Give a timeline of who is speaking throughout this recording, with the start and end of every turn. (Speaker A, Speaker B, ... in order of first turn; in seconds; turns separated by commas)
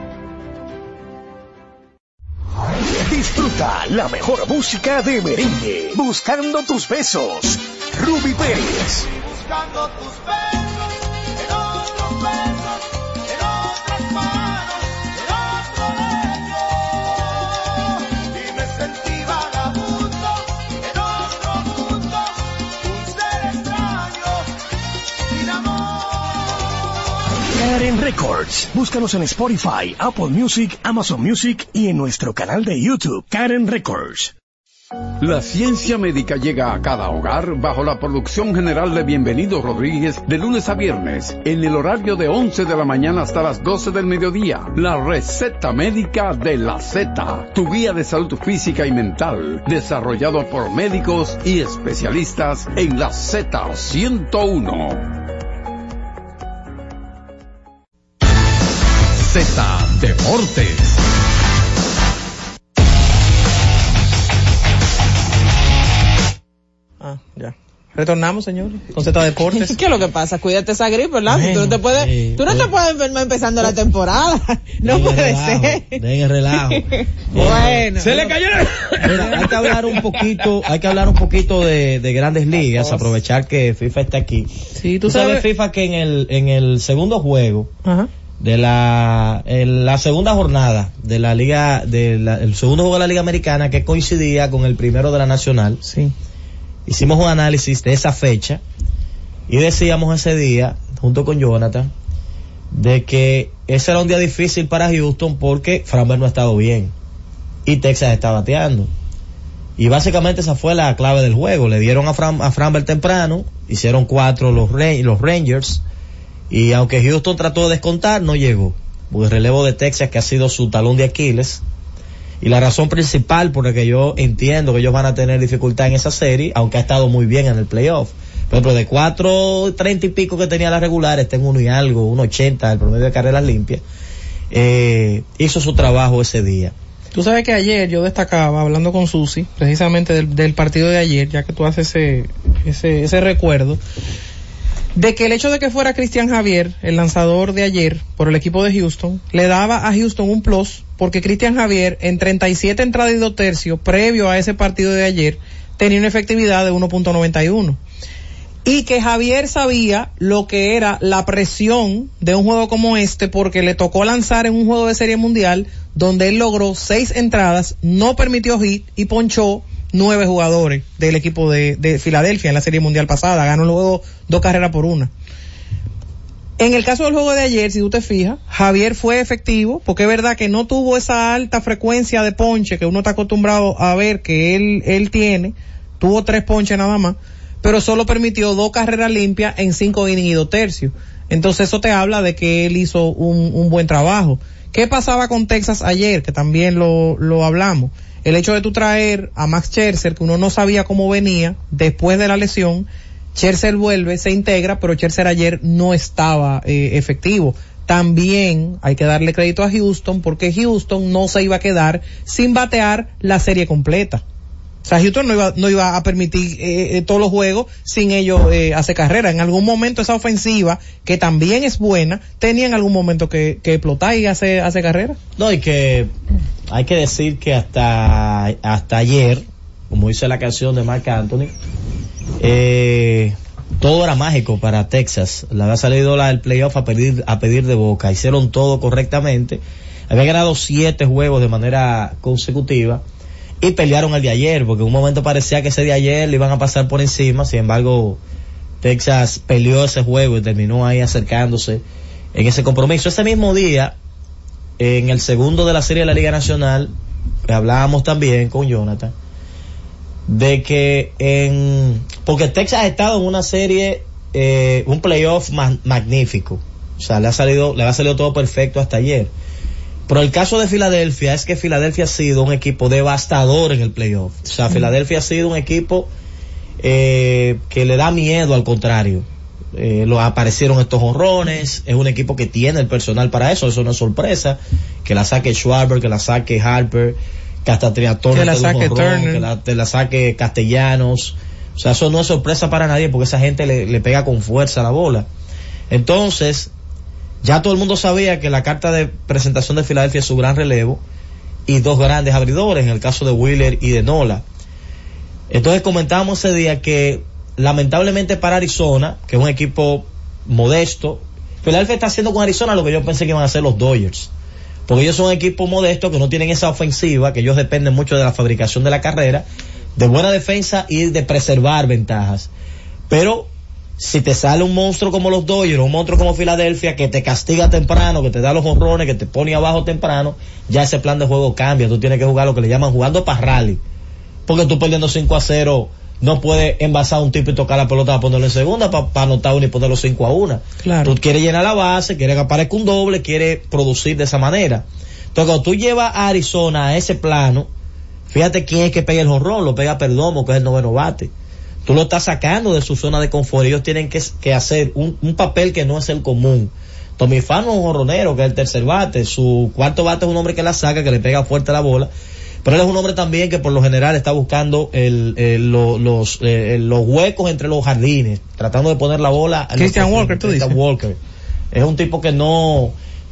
Speaker A: 3.0-9.1, Speaker B: 9.0-24.5, Speaker B: 25.3-27.0, Speaker A: 27.5-34.3, Speaker C: 35.2-55.1, Speaker C: 59.2-61.0, Speaker D: 67.0-69.8, Speaker E: 69.5-76.0, Speaker F: 71.3-72.7, Speaker F: 74.8-78.3, Speaker E: 76.5-80.0, Speaker F: 79.0-84.5, Speaker D: 82.8-83.1, Speaker D: 84.8-85.5, Speaker F: 85.0-87.7, Speaker F: 88.4-95.8, Speaker D: 95.8-96.1, Speaker F: 96.9-98.6, Speaker F: 99.5-101.9, Speaker F: 102.7-106.9, Speaker F: 107.7-108.9, Speaker F: 109.8-115.8, Speaker F: 116.5-121.6, Speaker F: 122.4-133.8, Speaker F: 134.5-136.7, Speaker D: 137.1-143.8, Speaker D: 144.9-157.8, Speaker D: 158.7-175.1, Speaker D: 176.6-214.2, Speaker D: 214.8-225.2, Speaker F: 225.4-226.1, Speaker F: 226.7-231.5, Speaker F: 232.4-243.0, Speaker F: 243.6-248.2, Speaker F: 248.8-251.8, Speaker F: 252.3-253.9, Speaker F: 254.8-256.9, Speaker F: 257.5-259.1, Speaker F: 260.3-269.3, Speaker F: 270.1-276.1, Speaker F: 276.8-295.3, Speaker D: 288.3-289.5, Speaker F: 295.9-296.7, Speaker F: 297.4-301.0, Speaker F: 301.7-304.4, Speaker F: 305.5-314.3, Speaker F: 314.9-322.5, Speaker F: 323.1-333.8, Speaker F: 334.5-347.7, Speaker D: 340.8-341.2, Speaker F: 348.3-351.3, Speaker F: 351.9-362.1, Speaker F: 362.6-371.2, Speaker D: 369.8-370.8, Speaker F: 371.7-373.0